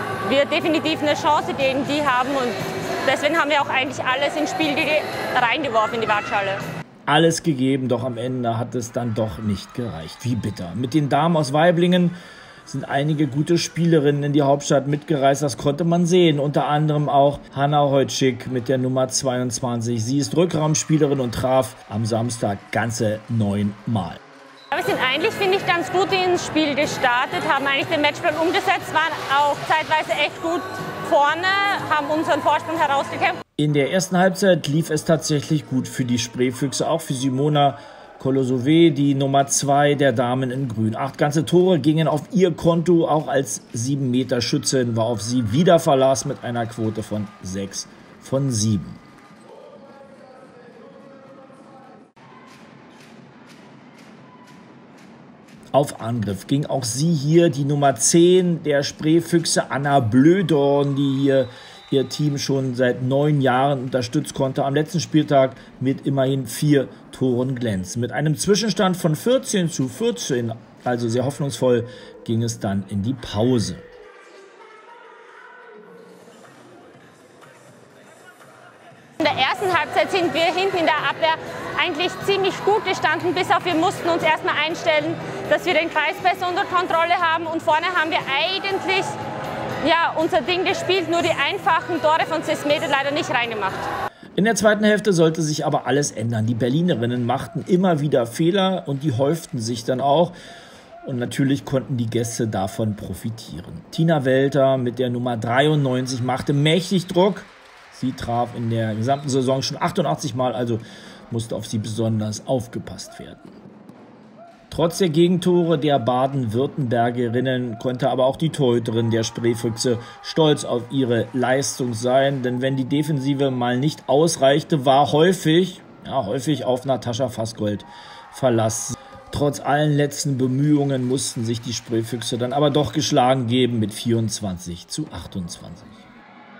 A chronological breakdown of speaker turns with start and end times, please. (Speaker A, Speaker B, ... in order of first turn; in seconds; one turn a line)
Speaker A: 0.2-6.6
Speaker B: 7.1-24.2
Speaker A: 24.7-33.4
Speaker B: 33.6-49.0
Speaker B: 55.7-73.8
Speaker A: 79.2-89.1
Speaker A: 89.8-93.9
Speaker B: 94.4-100.3
Speaker B: 101.0-113.5
Speaker B: 114.7-136.0